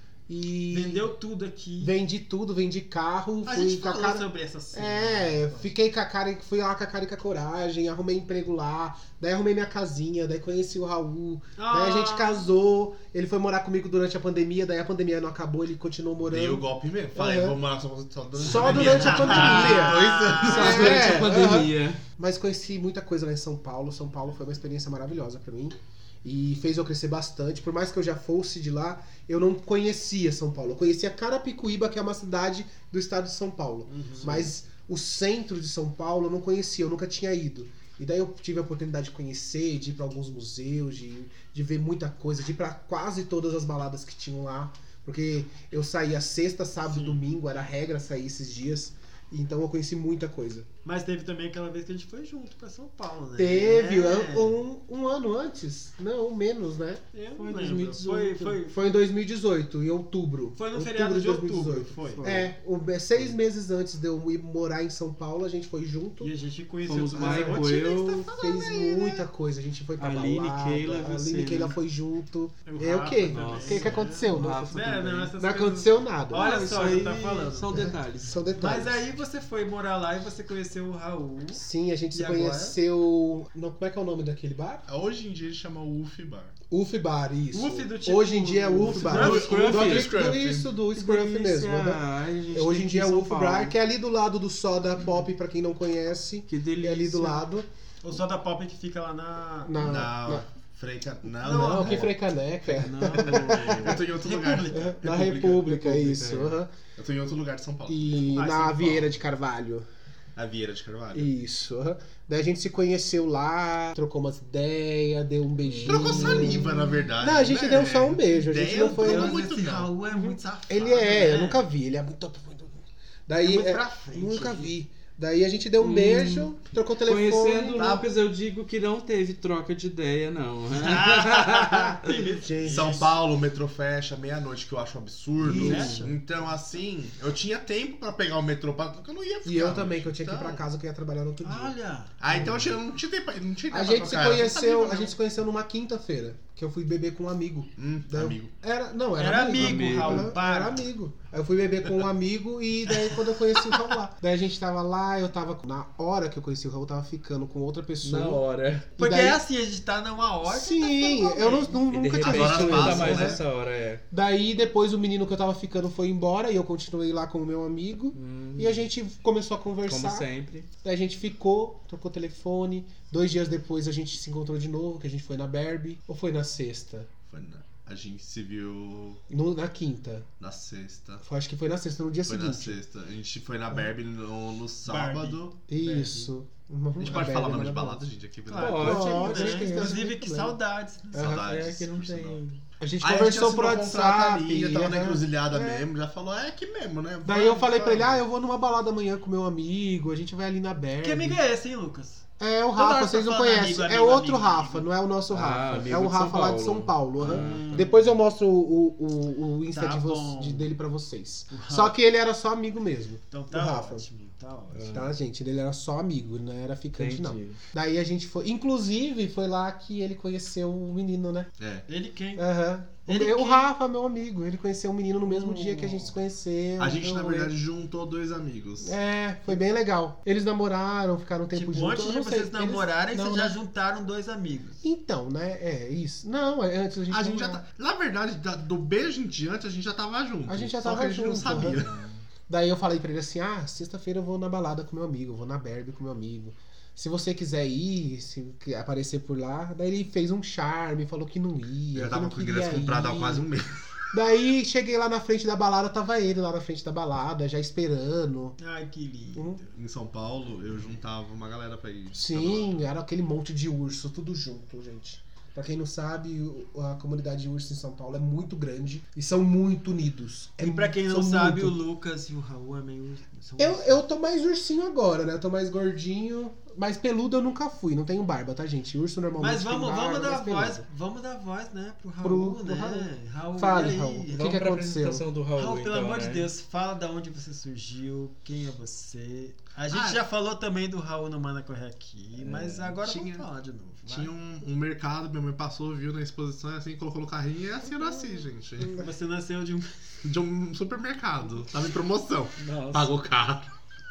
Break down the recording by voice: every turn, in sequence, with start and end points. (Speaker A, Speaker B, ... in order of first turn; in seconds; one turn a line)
Speaker A: 0.3-1.1
Speaker B: 0.7-1.9
Speaker A: 1.8-17.6
Speaker B: 3.4-5.7
Speaker B: 11.6-12.5
Speaker C: 16.2-21.2
Speaker A: 18.4-50.7
Speaker B: 18.4-21.2
Speaker D: 20.4-22.0
Speaker B: 33.9-34.5
Speaker B: 46.8-47.3
Speaker B: 50.8-54.6
Speaker A: 53.4-66.3
Speaker B: 57.1-58.9
Speaker D: 57.4-58.1
Speaker B: 60.5-62.4
Speaker D: 62.1-62.5
Speaker B: 66.2-69.2
Speaker D: 66.8-68.3
Speaker C: 67.2-67.5
Speaker A: 67.2-67.8
Speaker A: 68.4-76.5
Speaker D: 70.0-71.8
Speaker B: 72.7-77.8
Speaker D: 73.3-75.3
Speaker D: 76.3-78.3
Speaker A: 77.7-79.1
Speaker B: 78.5-82.8
Speaker A: 81.5-84.8
Speaker C: 84.9-86.5
Speaker A: 86.7-97.7
Speaker B: 87.5-90.1
Speaker C: 88.8-90.7
Speaker D: 89.0-90.3
Speaker D: 90.9-93.7
Speaker D: 96.5-97.4
Speaker B: 98.0-100.1
Speaker A: 99.7-100.5
Speaker C: 99.8-102.1
Speaker B: 101.4-102.1
Speaker A: 101.4-104.0
Speaker B: 102.7-105.0
Speaker D: 102.8-104.0
Speaker C: 103.8-105.9
Speaker A: 104.6-106.7
Speaker D: 105.6-106.5
Speaker C: 107.0-108.2
Speaker A: 107.9-109.9
Speaker B: 108.3-109.1
Speaker C: 110.3-111.3
Speaker A: 111.1-119.4
Speaker D: 115.6-116.6
Speaker C: 115.8-119.9
Speaker B: 118.5-121.6
Speaker A: 120.1-128.0
Speaker B: 123.3-124.7
Speaker D: 125.8-126.5
Speaker D: 127.0-131.9
Speaker C: 127.8-128.1
Speaker B: 130.8-133.1
Speaker A: 132.1-133.1
Speaker C: 132.7-140.6
Speaker A: 135.4-136.0
Speaker B: 135.5-136.5
Speaker A: 139.4-141.7
Speaker B: 141.4-142.2
Speaker C: 142.2-145.1
Speaker A: 142.3-142.7
Speaker A: 143.7-158.4
Speaker C: 147.8-148.5
Speaker B: 149.2-150.9
Speaker D: 149.5-150.3
Speaker D: 158.0-158.9
Speaker B: 159.0-163.2
Speaker A: 159.0-159.4
Speaker A: 160.4-163.4
Speaker D: 161.9-164.0
Speaker C: 162.2-163.4
Speaker A: 164.1-170.3
Speaker D: 168.1-168.9
Speaker D: 169.8-170.7
Speaker A: 170.8-177.1
Speaker C: 177.3-179.2
Speaker A: 179.3-180.3
Speaker C: 180.4-181.2
Speaker A: 181.2-182.8
Speaker C: 182.3-185.5
Speaker B: 184.8-186.3
Speaker A: 185.7-188.0
Speaker C: 187.0-189.0
Speaker B: 188.4-191.3
Speaker D: 188.5-189.9
Speaker A: 188.8-190.5
Speaker C: 191.1-192.4
Speaker A: 191.1-191.7
Speaker D: 191.2-192.6
Speaker A: 192.8-195.9
Speaker C: 193.0-198.2
Speaker A: 197.2-201.4
Speaker B: 201.0-204.9
Speaker A: 202.4-214.1
Speaker D: 205.3-207.9
Speaker B: 207.2-208.1
Speaker B: 209.7-210.7
Speaker B: 211.5-211.9
Speaker B: 213.3-215.0
Speaker D: 214.7-215.1
Speaker A: 214.9-221.5
Speaker D: 216.9-217.6
Speaker C: 221.6-221.8
Speaker B: 221.9-222.5
Speaker A: 222.3-227.5
Speaker B: 223.1-223.7
Speaker B: 225.3-226.1
Speaker C: 226.8-229.0
Speaker A: 228.8-233.6
Speaker B: 231.5-234.8
Speaker A: 234.8-237.6
Speaker C: 237.1-241.9
Speaker A: 240.4-241.8
Speaker B: 241.4-242.2
Speaker A: 242.5-253.5
Speaker C: 251.9-254.0
Speaker A: 254.1-258.6
Speaker B: 258.6-259.7
Speaker A: 259.3-259.6
Speaker C: 259.7-262.8
Speaker A: 262.1-271.8
Speaker B: 270.6-274.0
Speaker A: 273.6-280.8
Speaker B: 279.4-284.5
Speaker A: 282.2-285.2
Speaker D: 284.3-286.5
Speaker B: 285.5-294.3
Speaker C: 289.9-290.2
Speaker C: 292.4-293.4
Speaker C: 294.1-299.0
Speaker B: 298.9-299.9
Speaker C: 300.2-303.7
Speaker D: 302.6-303.1